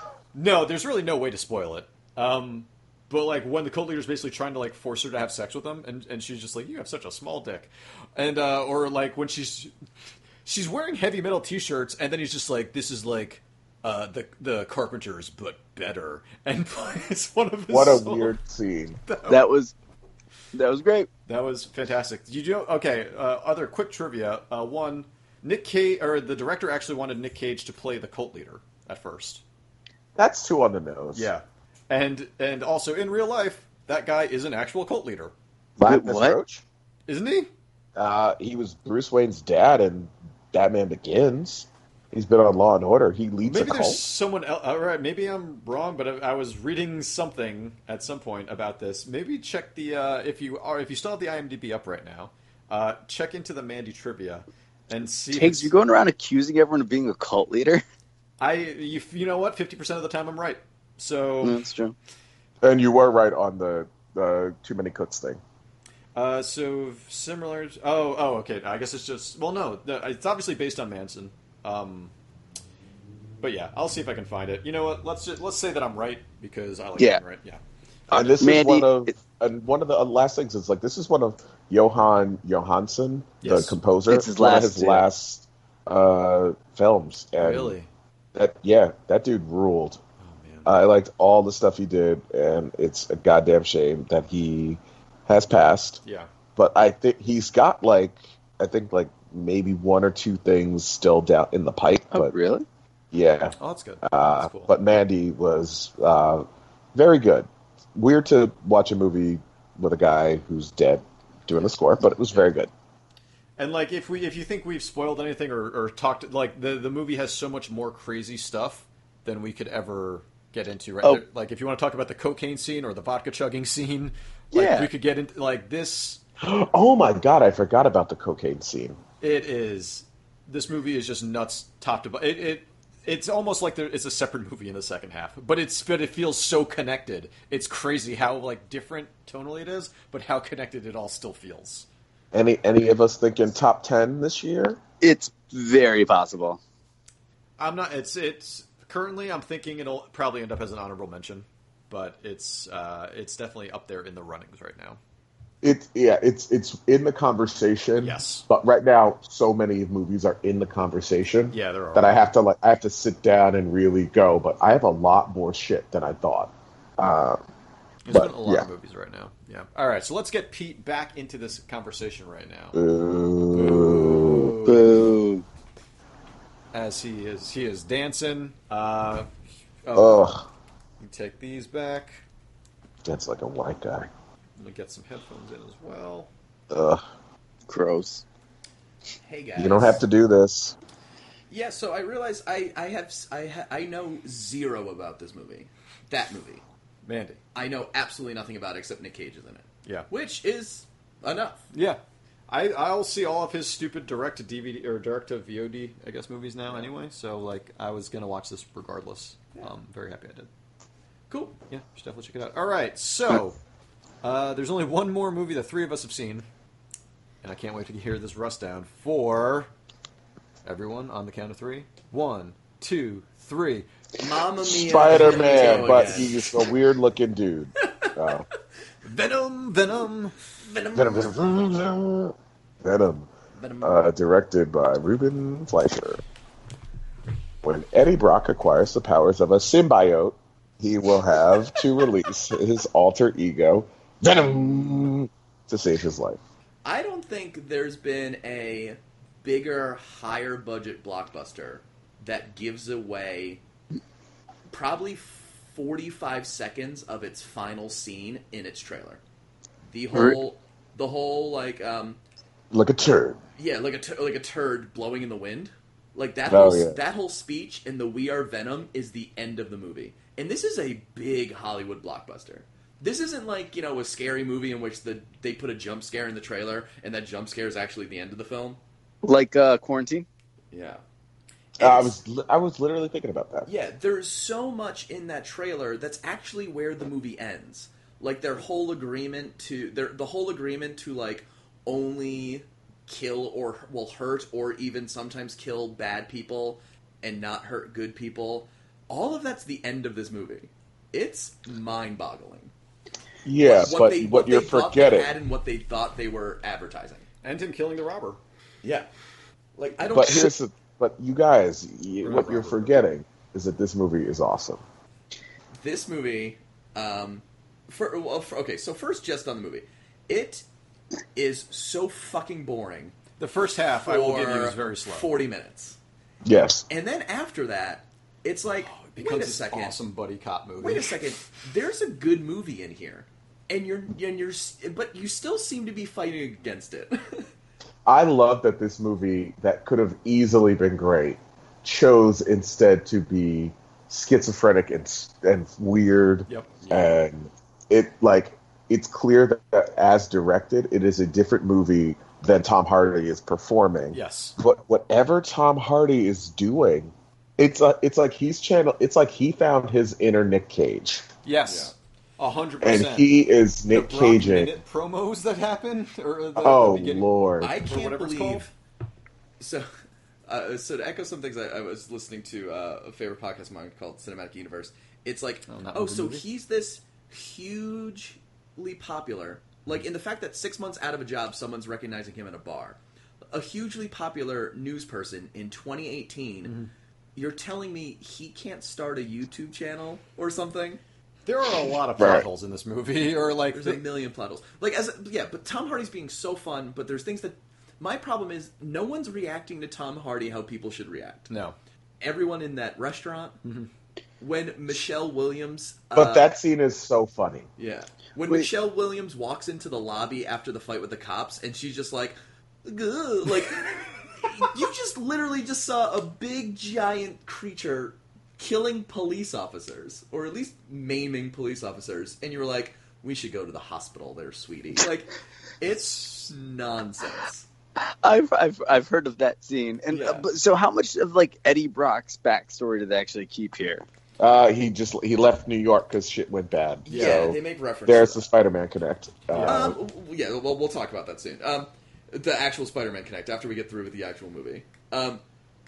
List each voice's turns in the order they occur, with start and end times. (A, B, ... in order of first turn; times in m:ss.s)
0:00.3-0:09.7 A
0:10.4-0:18.4 A
0:17.7-0:19.0 B
0:19.0-0:19.4 A
0:19.3-0:19.7 C
0:20.5-0:21.1 C
0:21.3-0:29.4 A
0:30.2-0:31.3 B
0:31.1-0:35.3 A
0:35.8-0:36.6 B
0:35.8-0:36.4 C
0:37.1-0:37.5 A
0:38.0-0:44.0 B
0:43.4-0:55.7 A
0:55.3-0:57.8 C
0:58.4-1:01.6 A
1:01.4-1:01.9 C
1:02.6-1:05.4 B
1:06.1-1:12.1 A
1:13.4-1:17.6 A
1:18.1-1:27.7 B
1:18.1-1:19.1 C
1:23.4-1:23.8 A
1:24.1-1:25.0 C
1:27.4-1:27.9 A
1:28.3-1:30.0 B
1:30.2-1:30.7 A
1:30.6-1:36.0 B
1:36.0-1:36.3 A
1:36.6-1:42.3 B
1:42.1-1:42.6 C
1:43.1-1:52.7 B
1:43.6-1:44.7 A
1:53.6-2:06.2 A
2:04.5-2:04.9 C
2:06.4-2:09.0 B
2:09.2-2:21.9 A
2:22.3-2:24.8 B
2:25.0-2:26.6 C
2:27.6-2:35.0 A
2:35.6-2:47.4 B
2:38.0-2:38.4 A
2:41.5-2:42.2 A
2:48.0-2:52.8 A
2:48.1-2:48.7 B
2:52.7-2:54.6 B
2:53.5-2:54.9 A
2:54.6-2:55.4 C
2:56.7-2:59.3 A
2:59.8-3:00.3 A
2:59.9-3:00.4 B
3:01.0-3:02.2 A
3:03.0-3:04.1 B
3:04.6-3:06.3 A
3:06.7-3:07.0 B
3:07.7-3:08.2 C
3:09.2-3:10.0 D
3:09.6-3:10.8 B
3:11.5-3:16.6 D
3:17.0-3:17.4 A
3:17.5-3:21.6 D
3:21.7-3:30.5 A
3:31.3-3:31.6 D
3:31.7-3:33.6 A
3:34.2-3:36.5 A
3:37.4-3:39.7 A
3:40.6-3:43.9 A
3:44.2-3:46.6 D
3:44.6-3:48.5 B
3:45.3-3:46.2 A
3:49.0-3:50.4 A
3:50.6-3:51.4 D
3:50.9-3:53.3 B
3:53.5-3:54.0 D
3:53.8-3:56.2 B
3:57.6-4:06.4 B
4:06.8-4:13.6 D
4:14.7-4:19.2 D
4:19.9-4:22.2 D
4:20.1-4:20.4 C
4:22.7-4:23.4 B
4:23.6-4:38.8 D
4:26.5-4:27.0 B
4:39.2-4:40.2 C
4:40.7-4:41.0 D
4:41.8-4:42.1 D
4:41.8-4:43.7 B
4:43.7-5:02.7 D
5:03.4-5:05.3 B
5:03.6-5:07.2 D
5:07.4-5:08.4 A
5:08.8-5:09.1 D
5:09.8-5:10.5 D
5:10.1-5:14.8 B
5:12.2-5:12.9 A
5:15.7-5:20.6 D
5:21.3-5:23.2 D
5:23.4-5:25.3 A
5:23.9-5:26.0 D
5:26.4-5:26.8 B
5:26.9-5:30.0 D
5:28.7-5:31.2 A
5:30.8-5:37.5 D
5:38.0-6:01.2 B
5:46.5-5:47.1 A
5:54.1-5:54.6 A
6:01.4-6:03.3 A
6:01.6-6:01.9 D
6:02.8-6:04.8 B
6:03.8-6:07.3 A
6:06.6-6:07.7 B
6:07.6-6:08.7 D
6:07.8-6:08.7 A
6:09.6-6:09.9 D
6:10.5-6:23.0 D
6:15.7-6:16.4 A
6:23.5-6:26.7 D
6:26.6-6:26.9 A
6:27.4-6:31.0 D
6:31.4-6:34.0 A
6:32.2-6:32.4 B
6:33.7-6:41.5 D
6:41.5-6:41.8 A
6:42.2-6:43.6 D
6:43.6-6:43.9 A
6:44.4-6:46.5 D
6:46.1-6:47.7 B
6:47.8-7:07.6 D
7:08.0-7:14.0 C
7:10.1-7:10.5 D
7:14.4-7:20.0 B
7:17.0-7:18.4 D
7:17.1-7:17.5 A
7:19.5-7:19.9 A
7:19.6-7:25.4 D